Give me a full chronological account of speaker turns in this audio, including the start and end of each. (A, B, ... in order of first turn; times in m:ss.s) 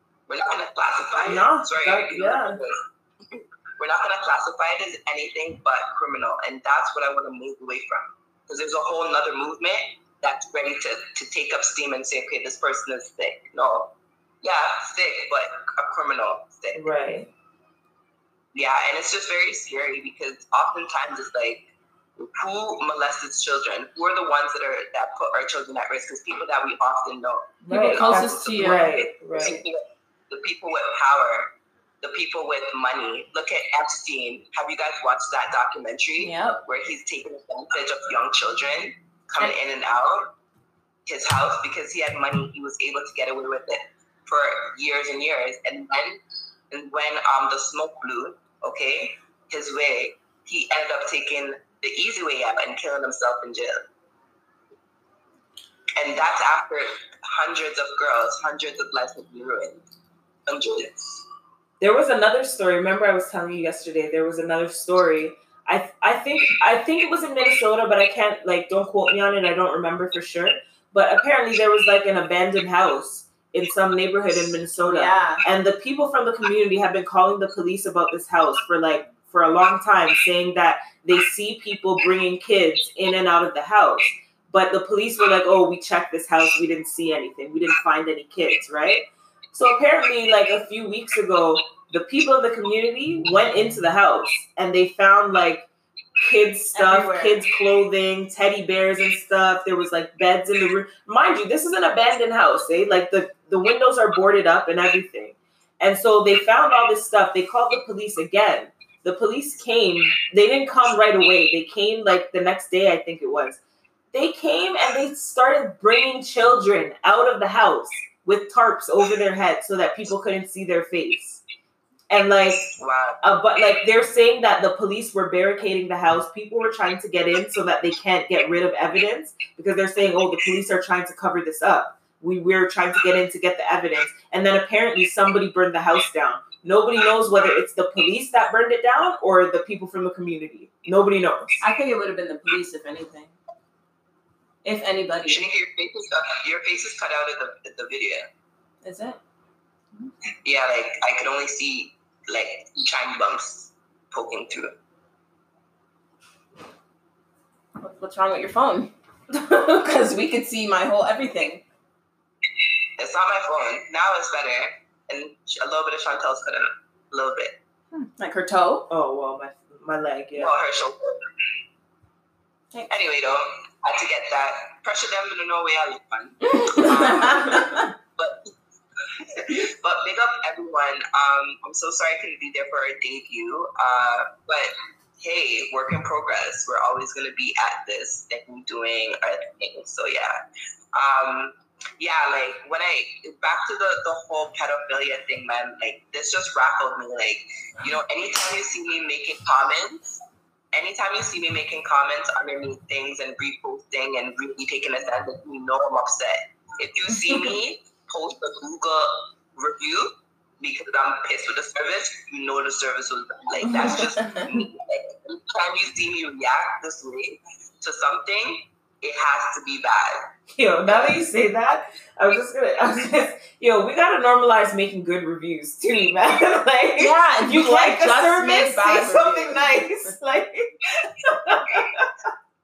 0:00.3-0:02.8 A
0:01.2-0:02.6 B
0:03.8-0:16.8 A
0:16.7-0:17.3 B
0:18.5-0:40.3 A
0:27.6-0:29.6 B
0:27.7-0:29.6 C
0:36.2-0:36.6 C
0:41.0-0:53.8 A
0:56.0-0:59.8 A
1:00.4-1:01.2 A
1:01.8-1:35.7 B
1:14.8-1:15.4 C
1:36.2-1:53.6 B
1:36.7-1:37.5 C
1:54.1-2:01.4 B
2:02.1-2:21.6 B
2:02.8-2:03.2 A
2:21.6-2:23.3 C
2:24.6-2:25.5 C
2:25.2-2:28.3 A
2:28.8-2:29.2 C
2:30.4-2:34.7 A
2:37.8-2:41.6 C
2:43.0-2:47.6 A
2:48.0-2:48.8 C
2:48.9-2:50.5 B
2:50.3-2:51.2 A
2:52.9-2:58.5 A
2:56.5-2:57.9 C
2:59.2-3:10.4 A
3:10.9-3:20.0 A
3:20.7-3:40.3 A
3:33.8-3:34.0 B
3:40.5-3:52.1 B
3:47.0-3:49.9 C